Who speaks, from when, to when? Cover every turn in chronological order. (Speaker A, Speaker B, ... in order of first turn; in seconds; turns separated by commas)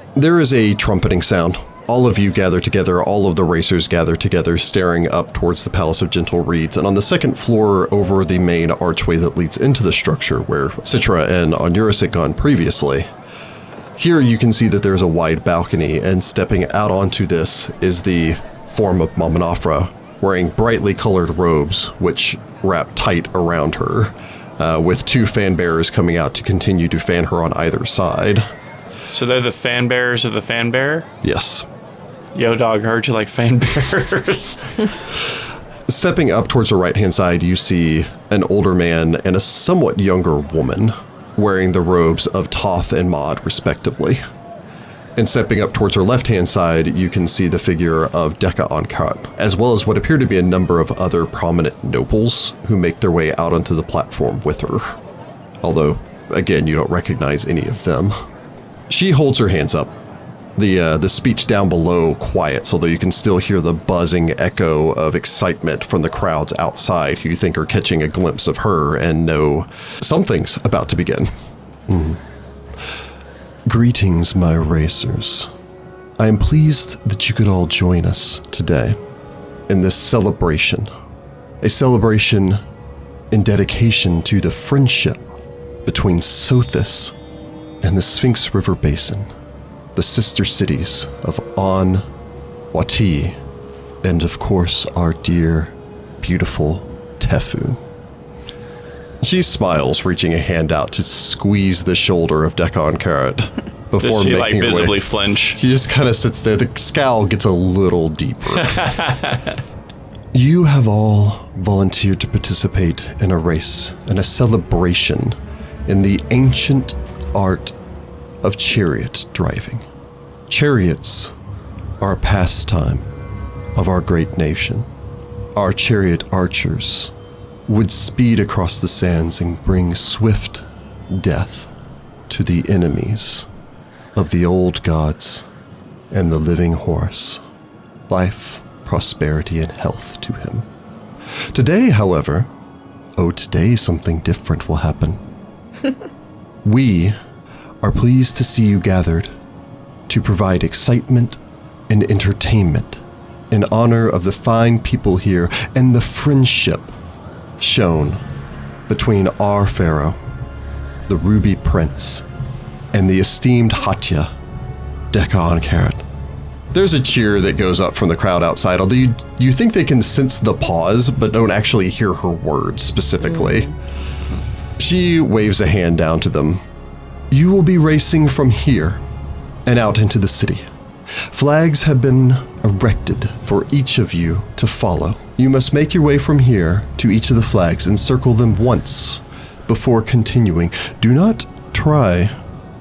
Speaker A: 0.1-13.1, Speaker A: 14.0-28.4, Speaker B: 29.1-31.1, Speaker A: 31.2-31.7, Speaker B: 32.3-34.7, Speaker A: 35.9-44.2, Speaker A: 45.1-55.0, Speaker A: 55.6-58.1, Speaker A: 58.9-59.9, Speaker A: 60.5-71.3, Speaker A: 71.9-72.2, Speaker A: 73.7-75.5, Speaker A: 76.2-79.0, Speaker A: 79.7-80.9, Speaker A: 81.6-82.6, Speaker A: 83.3-85.2, Speaker A: 85.8-87.1, Speaker A: 87.8-89.3, Speaker A: 89.9-92.0, Speaker A: 92.7-93.4, Speaker A: 94.0-97.8, Speaker A: 99.2-105.0, Speaker B: 104.0-105.6, Speaker A: 105.5-109.0, Speaker B: 108.8-109.4, Speaker A: 110.3-115.3, Speaker A: 115.9-117.7, Speaker A: 118.4-119.8, Speaker A: 120.5-121.3, Speaker A: 122.0-123.1, Speaker A: 123.7-124.9, Speaker A: 125.5-127.1, Speaker A: 127.7-131.7, Speaker A: 132.3-133.5, Speaker A: 134.1-135.4, Speaker A: 136.1-137.4, Speaker A: 138.1-140.7, Speaker A: 141.5-142.5, Speaker A: 143.2-145.2, Speaker A: 146.6-147.1, Speaker A: 147.8-149.3, Speaker A: 150.1-156.9, Speaker A: 157.6-158.2, Speaker A: 158.9-160.2, Speaker A: 161.1-162.2, Speaker A: 162.9-164.3, Speaker A: 165.1-166.0, Speaker A: 166.7-173.7, Speaker A: 174.8-176.6, Speaker A: 177.3-179.0, Speaker A: 179.7-180.6, Speaker A: 181.3-192.3